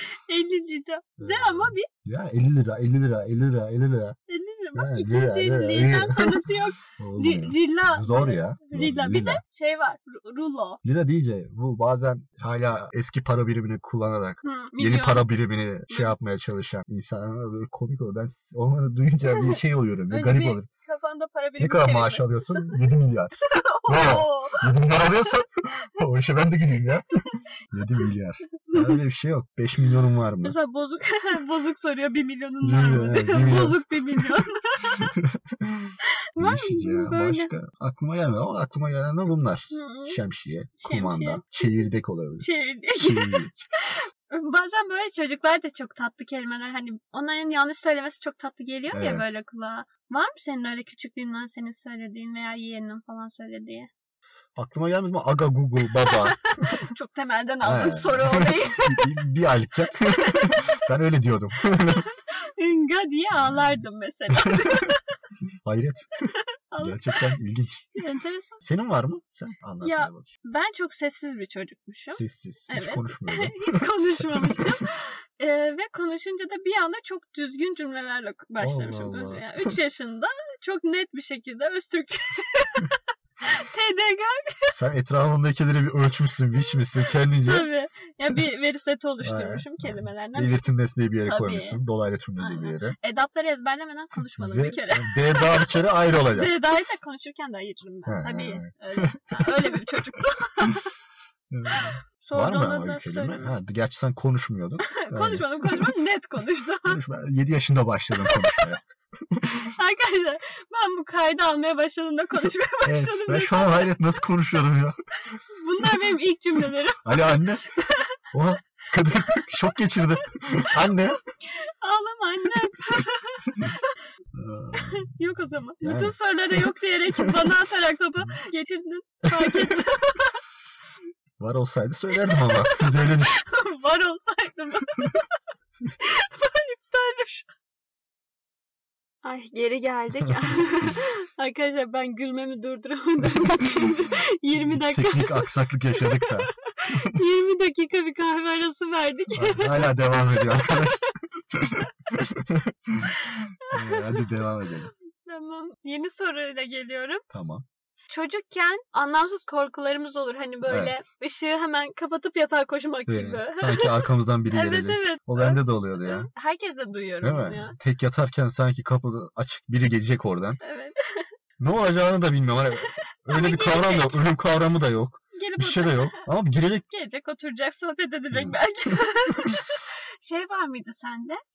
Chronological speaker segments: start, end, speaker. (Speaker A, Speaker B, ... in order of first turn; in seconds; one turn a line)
Speaker A: 0.3-1.9
Speaker B: 1.2-4.2
Speaker A: 4.3-10.8
Speaker B: 4.7-6.4
Speaker B: 7.0-9.4
Speaker B: 10.8-20.7
Speaker A: 14.4-15.3
Speaker A: 15.9-16.1
Speaker A: 19.2-19.6
Speaker A: 20.1-22.8
Speaker B: 21.6-23.4
Speaker A: 23.4-24.7
Speaker B: 23.9-30.6
Speaker A: 28.7-29.0
Speaker A: 29.8-35.1
Speaker B: 32.6-34.4
Speaker B: 34.9-43.6
Speaker A: 36.3-37.5
Speaker A: 39.7-40.2
Speaker A: 40.8-53.9
Speaker B: 48.9-49.4
Speaker B: 54.5-56.7
Speaker A: 55.9-59.2
Speaker B: 57.6-62.1
Speaker A: 60.0-60.7
Speaker A: 61.9-65.0
Speaker B: 63.4-63.6
Speaker B: 64.4-64.9
Speaker B: 65.6-66.1
Speaker A: 66.7-67.4
Speaker B: 66.8-67.9
Speaker A: 67.9-68.6
Speaker B: 68.6-70.3
Speaker A: 69.8-84.7
Speaker B: 72.1-74.8
Speaker B: 78.6-79.7
Speaker B: 84.7-87.7
Speaker A: 86.6-90.7
Speaker B: 89.2-93.0
Speaker A: 91.2-91.8
Speaker A: 92.4-100.9
Speaker B: 94.4-96.6
Speaker B: 98.0-99.8
Speaker B: 101.5-105.9
Speaker A: 101.7-103.5
Speaker A: 104.8-107.0
Speaker B: 106.8-109.5
Speaker A: 108.2-108.6
Speaker A: 109.6-113.9
Speaker B: 112.8-115.0
Speaker A: 115.6-118.1
Speaker B: 117.0-117.6
Speaker B: 118.3-121.2
Speaker A: 121.8-124.0
Speaker B: 124.3-125.1
Speaker A: 124.7-130.4
Speaker B: 125.8-127.5
Speaker B: 129.2-129.8
Speaker B: 131.4-133.5
Speaker A: 132.2-135.3
Speaker A: 136.0-137.5
Speaker A: 139.2-149.9
Speaker B: 140.2-140.9
Speaker B: 144.6-147.1
Speaker B: 149.3-154.9
Speaker A: 150.5-151.1
Speaker A: 153.3-154.2
Speaker A: 155.2-157.2
Speaker B: 157.3-157.6
Speaker A: 158.1-167.8
Speaker B: 160.7-161.0
Speaker B: 163.1-166.3
Speaker B: 167.2-170.6
Speaker A: 170.6-171.3
Speaker B: 171.6-176.8
Speaker A: 173.3-174.2
Speaker A: 175.3-176.2
Speaker A: 176.9-181.4
Speaker B: 178.3-178.6